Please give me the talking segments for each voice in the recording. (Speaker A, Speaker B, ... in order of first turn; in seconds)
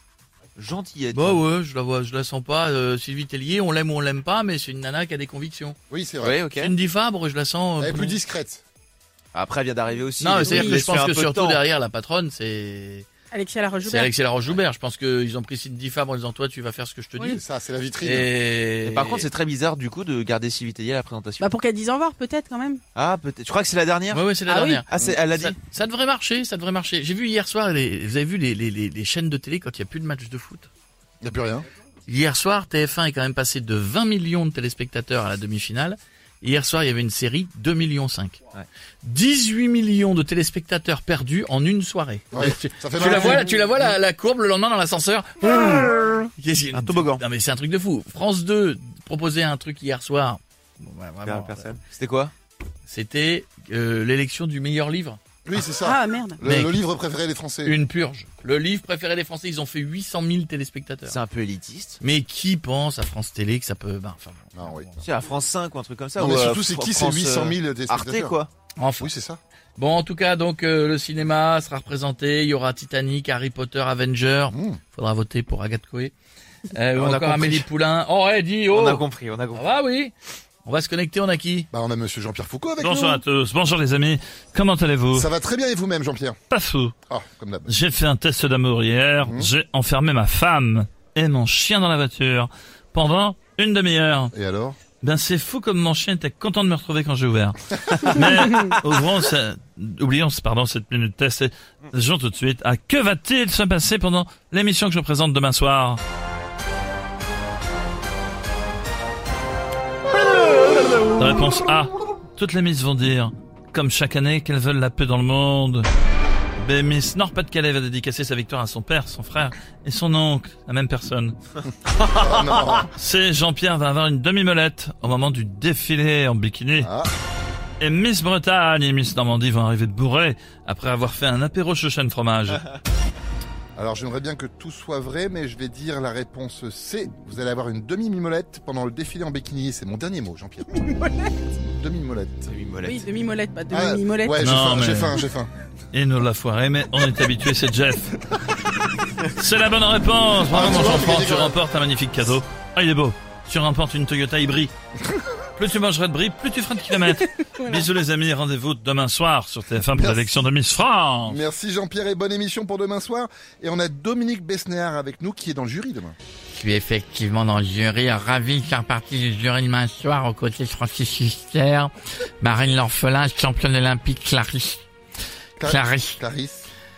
Speaker A: 0.6-1.4, 6.2-6.7, 9.3-11.6, 18.8-21.6, 22.9-25.6, 46.7-47.2, 51.2-52.3, 61.1-62.0, 65.0-68.5, 76.9-77.7, 78.7-79.7, 142.5-143.1
Speaker B: 1.1-5.8, 6.6-8.2, 10.2-13.1, 13.8-17.4, 18.0-19.3, 24.1-30.7, 32.1-38.4, 39.0-51.8, 52.9-55.2, 56.4-56.8, 57.6-61.2, 62.0-65.0, 68.8-69.1, 69.8-76.1, 76.7-81.7, 166.5-174.8, 175.6-176.2
Speaker C: 5.9-6.4, 7.8-8.6, 17.3-18.3, 31.2-31.7, 42.3-43.9, 55.5-57.8, 64.6-64.9, 66.2-68.4, 69.0-69.4, 74.5-74.8, 81.7-83.2, 85.1-86.4, 87.1-87.7, 89.2-89.5, 94.3-94.8, 122.1-122.9, 126.8-127.1, 133.8-140.9, 141.8-142.5, 143.7-145.5, 150.5-151.6, 159.9-160.4, 161.2-166.2, 175.6-176.7
Speaker D: 10.4-10.8, 13.3-14.1, 21.4-22.8, 24.5-24.8, 55.8-56.4, 142.8-144.4
Speaker E: 82.8-85.3, 86.5-86.9, 87.7-94.3, 95.0-106.0, 110.4-115.9, 116.6-121.4, 122.2-126.9, 127.8-132.7, 144.4-145.2, 145.9-148.2, 149.4-154.7, 155.6-161.4